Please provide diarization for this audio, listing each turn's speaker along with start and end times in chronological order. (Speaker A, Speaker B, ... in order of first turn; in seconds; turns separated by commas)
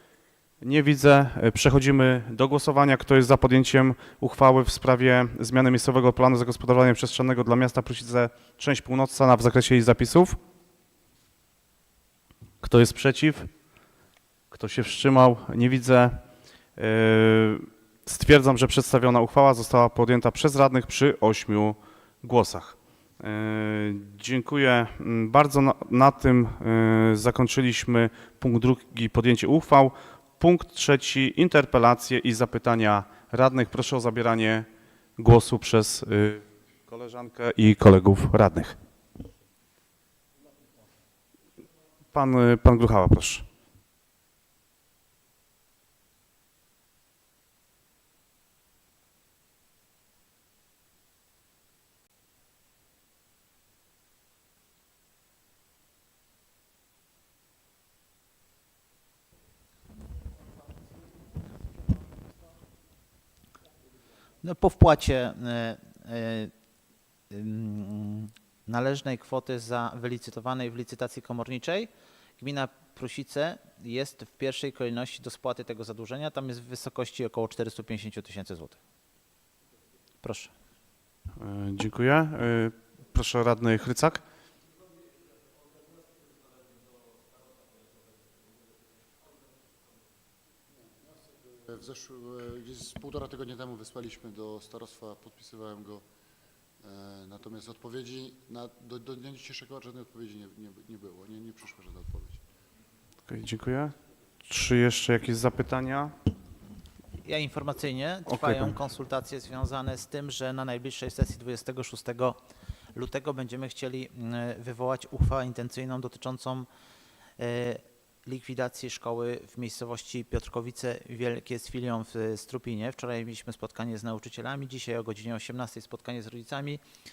Speaker A: 0.6-10.4, Speaker A: 12.6-13.5, Speaker A: 14.5-16.2, Speaker A: 16.8-34.7, Speaker A: 35.2-38.8, Speaker A: 42.1-43.5, Speaker B: 64.4-66.5, Speaker B: 67.3-78.8, Speaker B: 80.2-80.5, Speaker A: 81.4-84.2, Speaker C: 91.1-96.0, Speaker C: 96.8-102.4, Speaker A: 103.3-103.9, Speaker A: 104.5-106.1, Speaker B: 107.2-112.4, Speaker A: 108.3-108.8, Speaker B: 112.9-116.7, Speaker B: 117.4-126.8